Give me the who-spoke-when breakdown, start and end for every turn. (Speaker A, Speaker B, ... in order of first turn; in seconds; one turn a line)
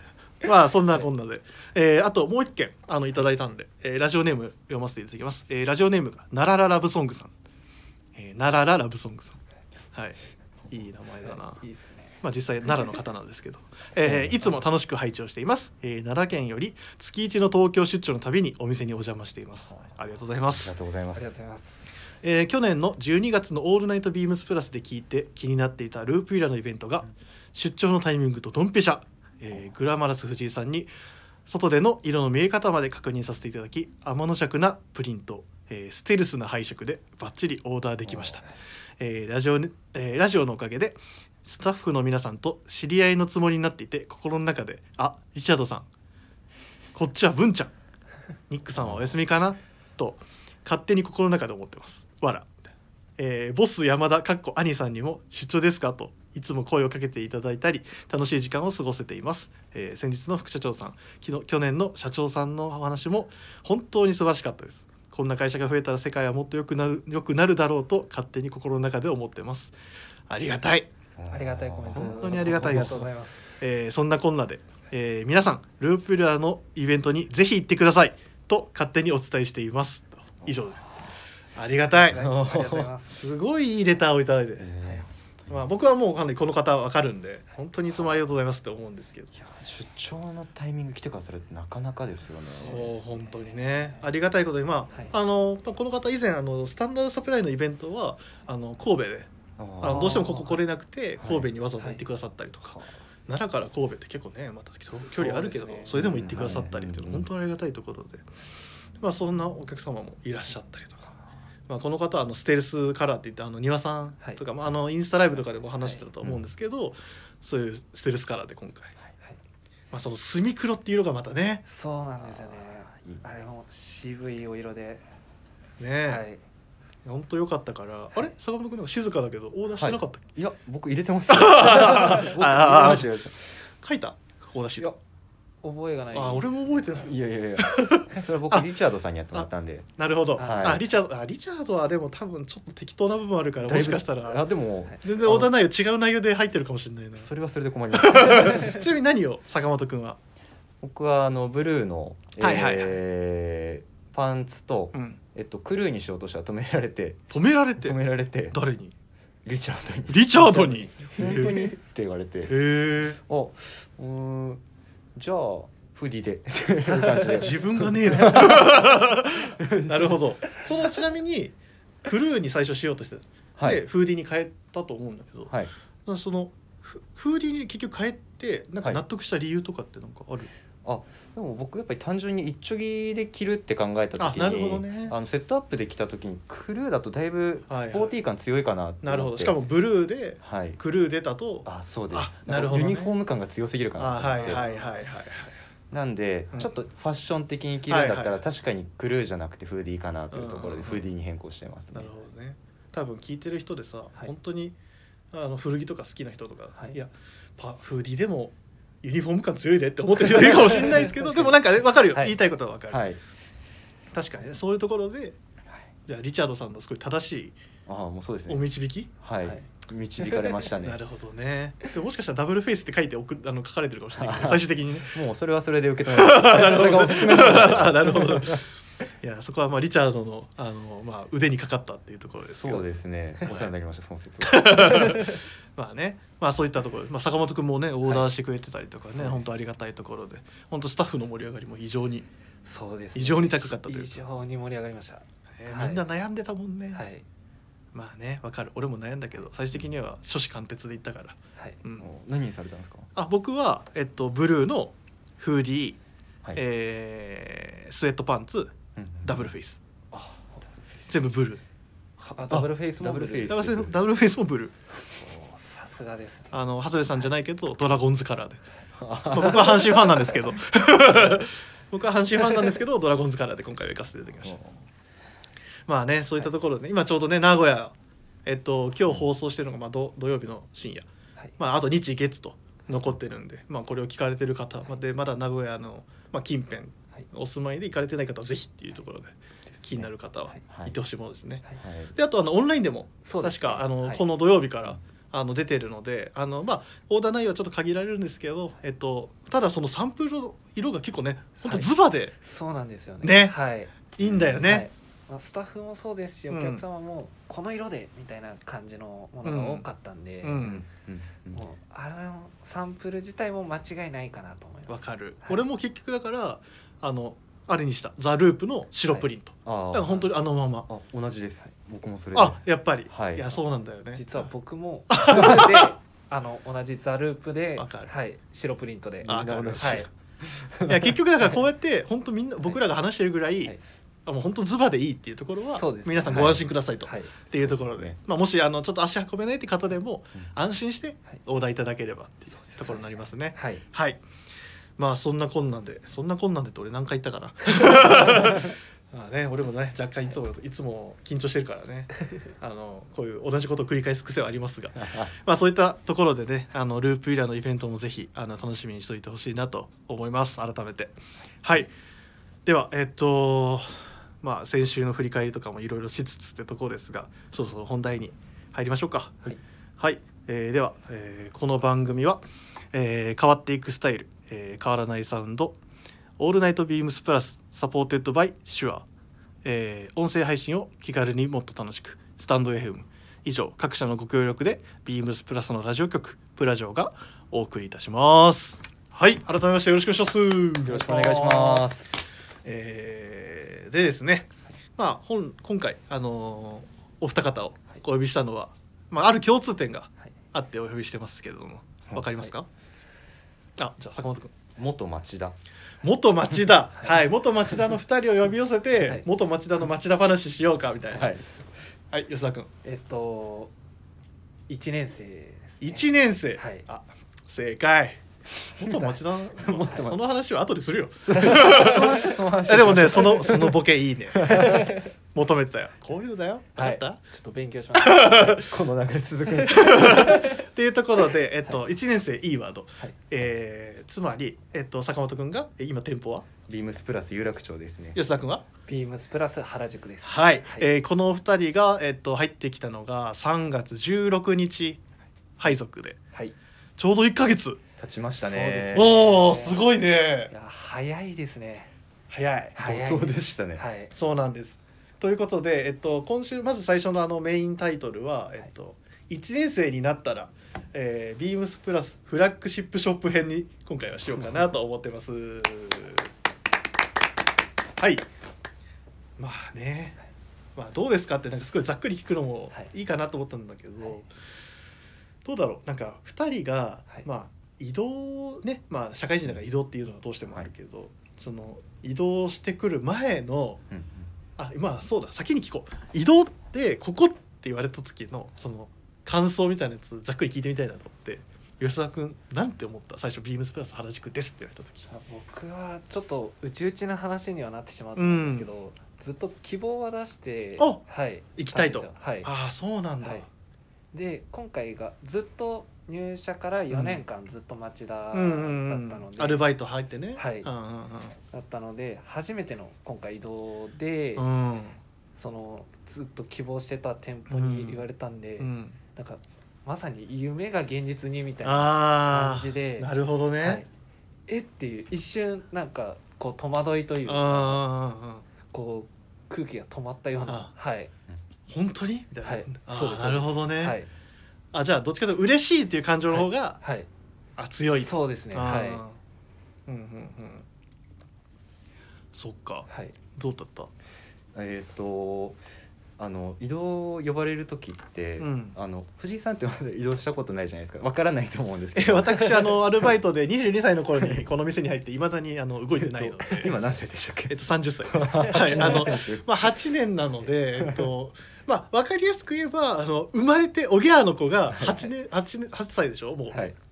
Speaker A: 0.4-7.3
Speaker A: 8.1-9.4
Speaker A: 9.9-10.2
Speaker A: 10.7-11.6
Speaker B: 11.2-12.1
Speaker A: 12.2-20.8
Speaker C: 14.0-14.5
Speaker C: 20.5-21.4
Speaker B: 21.1-21.9
Speaker A: 22.2-30.9
Speaker A: 31.4-45.9
Speaker A: 46.9-47.7
Speaker A: 48.5-52.5
Speaker C: 48.8-49.1
Speaker A: 53.2-69.7
Speaker A: 70.3-70.9
Speaker C: 71.2-73.0
Speaker B: 71.3-73.6
Speaker A: 72.0-73.1
Speaker A: 73.6-80.8
Speaker A: 81.5-82.2
Speaker B: 82.0-83.3
Speaker C: 82.1-82.9
Speaker A: 83.1-84.7
Speaker C: 84.6-85.6
Speaker A: 85.5-89.3
Speaker C: 89.3-92.9
Speaker A: 92.5-99.3
Speaker C: 99.6-100.4
Speaker A: 99.8-108.2
Speaker B: 99.8-100.6
Speaker C: 101.2-101.5
Speaker B: 105.0-106.0
Speaker C: 105.9-107.3
Speaker A: 109.0-111.1
Speaker A: 111.7-118.9
Speaker B: 115.7-116.0
Speaker A: 119.9-121.6
Speaker B: 121.7-125.0
Speaker C: 122.2-123.2
Speaker A: 125.8-126.2
Speaker B: 126.1-126.4
Speaker A: 127.0-130.3
Speaker C: 129.8-133.4
Speaker A: 131.3-133.1
Speaker A: 133.8-134.9
Speaker B: 135.6-136.4
Speaker A: 136.1-138.7
Speaker C: 136.9-139.9
Speaker A: 139.3-144.4
Speaker B: 140.4-140.7
Speaker C: 140.4-140.8
Speaker C: 143.6-145.5
Speaker A: 145.0-147.3
Speaker C: 147.2-148.8
Speaker A: 147.9-150.2
Speaker C: 150.8-157.2
Speaker A: 152.4-153.0
Speaker A: 154.9-155.2
Speaker A: 157.3-158.0
Speaker C: 157.8-158.6
Speaker A: 158.5-158.9
Speaker C: 159.4-162.6
Speaker A: 160.1-161.7
Speaker B: 160.5-161.0
Speaker A: 162.5-163.2
Speaker C: 163.2-164.6
Speaker C: 165.1-170.2
Speaker B: 166.9-167.4
Speaker A: 167.3-175.5
Speaker C: 173.6-173.8
Speaker A: 176.1-180.5
Speaker C: 180.8-189.6
Speaker A: 184.2-185.2
Speaker A: 187.7-188.1
Speaker A: 189.0-193.1
Speaker C: 190.4-190.8
Speaker C: 191.7-194.7
Speaker A: 194.0-195.5
Speaker B: 194.4-194.9
Speaker C: 195.9-202.1
Speaker A: 197.9-198.4
Speaker A: 200.3-201.1
Speaker A: 201.9-204.7
Speaker A: 205.3-213.1
Speaker B: 210.5-211.5
Speaker C: 212.9-213.2
Speaker A: 214.1-215.4
Speaker A: 216.1-217.6
Speaker C: 217.8-218.7
Speaker A: 218.5-219.1
Speaker C: 219.2-221.0
Speaker A: 220.8-225.2
Speaker C: 224.2-228.6
Speaker A: 226.1-228.7
Speaker A: 229.2-232.8
Speaker C: 232.4-235.2
Speaker A: 234.4-242.2
Speaker B: 234.9-235.4
Speaker B: 239.1-239.4
Speaker B: 242.7-246.0
Speaker A: 243.1-244.2
Speaker A: 245.6-247.0
Speaker B: 246.9-247.2
Speaker A: 247.9-252.1
Speaker C: 252.0-253.1
Speaker A: 253.1-256.0
Speaker A: 256.5-259.8
Speaker C: 258.9-259.5
Speaker C: 260.1-261.1
Speaker A: 261.1-261.6
Speaker C: 262.2-264.0
Speaker B: 262.4-263.6
Speaker A: 263.5-264.7
Speaker B: 265.1-266.5
Speaker A: 266.5-268.6
Speaker C: 268.9-270.0
Speaker A: 269.3-274.6
Speaker C: 274.4-274.8
Speaker A: 275.9-277.9
Speaker A: 278.4-302.3
Speaker C: 290.7-290.9
Speaker C: 291.8-292.1
Speaker B: 293.2-294.2
Speaker B: 301.6-301.9
Speaker B: 302.4-304.0
Speaker A: 303.2-303.5
Speaker A: 304.1-304.9
Speaker C: 304.2-304.6
Speaker B: 304.6-310.7
Speaker A: 306.5-306.8
Speaker A: 309.4-309.9
Speaker A: 310.4-310.8
Speaker C: 310.6-311.6
Speaker B: 311.5-315.6
Speaker A: 314.9-320.9
Speaker C: 319.6-320.3
Speaker C: 320.9-323.5
Speaker A: 322.3-324.5
Speaker B: 324.1-330.1
Speaker A: 325.1-325.9
Speaker A: 327.8-328.1
Speaker C: 329.2-331.1
Speaker A: 329.2-330.1
Speaker A: 330.9-344.2
Speaker B: 335.8-337.3
Speaker C: 336.3-336.6
Speaker C: 337.6-338.1
Speaker B: 342.8-343.8
Speaker A: 345.0-361.9
Speaker A: 362.6-372.4
Speaker A: 372.9-375.8
Speaker A: 376.4-379.0
Speaker A: 379.6-391.8
Speaker C: 390.9-392.1
Speaker B: 391.2-391.8
Speaker A: 392.6-402.7
Speaker A: 403.8-404.5
Speaker C: 404.8-405.6
Speaker A: 406.0-411.3
Speaker B: 409.0-409.2
Speaker C: 411.1-411.5
Speaker A: 412.1-412.7
Speaker B: 412.8-413.7
Speaker B: 414.7-416.9
Speaker A: 415.8-418.2
Speaker A: 418.8-427.2
Speaker C: 419.6-420.2
Speaker C: 421.2-423.8
Speaker C: 424.4-424.9
Speaker B: 424.5-425.1
Speaker B: 426.8-428.6
Speaker A: 427.9-428.7
Speaker C: 428.6-430.4
Speaker A: 429.7-436.5
Speaker B: 429.9-430.5
Speaker C: 436.7-438.2
Speaker A: 438.1-438.6
Speaker B: 438.9-440.9
Speaker A: 440.2-445.0
Speaker A: 445.6-446.2
Speaker A: 447.0-447.8
Speaker C: 448.0-449.3
Speaker B: 448.4-449.9
Speaker A: 448.9-450.5
Speaker B: 450.5-451.9
Speaker A: 452.3-452.8
Speaker B: 452.8-454.1
Speaker C: 452.8-453.9
Speaker A: 454.1-466.3
Speaker A: 468.0-468.2
Speaker A: 469.4-470.2
Speaker A: 470.8-474.3
Speaker A: 475.4-483.8
Speaker C: 483.9-484.3
Speaker A: 484.6-495.1
Speaker B: 495.1-502.5
Speaker A: 498.1-498.7
Speaker A: 501.6-503.4
Speaker B: 504.1-509.6
Speaker A: 506.9-507.2
Speaker A: 508.3-511.3
Speaker B: 510.4-510.7
Speaker B: 511.5-514.5
Speaker A: 514.4-515.0
Speaker B: 515.4-523.9
Speaker A: 517.5-518.0
Speaker A: 518.6-519.0
Speaker A: 521.6-523.8
Speaker B: 524.5-527.8
Speaker A: 527.2-528.4
Speaker B: 528.7-531.1
Speaker A: 531.7-534.0
Speaker B: 532.4-534.1
Speaker A: 534.7-536.8
Speaker B: 536.8-537.1
Speaker A: 537.6-539.2
Speaker B: 538.0-539.0
Speaker A: 539.9-540.6
Speaker A: 542.3-543.9
Speaker B: 542.9-543.1
Speaker C: 544.5-545.6
Speaker C: 546.2-552.7
Speaker A: 548.4-548.7
Speaker A: 551.9-556.8
Speaker C: 556.0-559.7
Speaker A: 557.5-566.7
Speaker B: 558.5-559.1
Speaker C: 560.8-561.1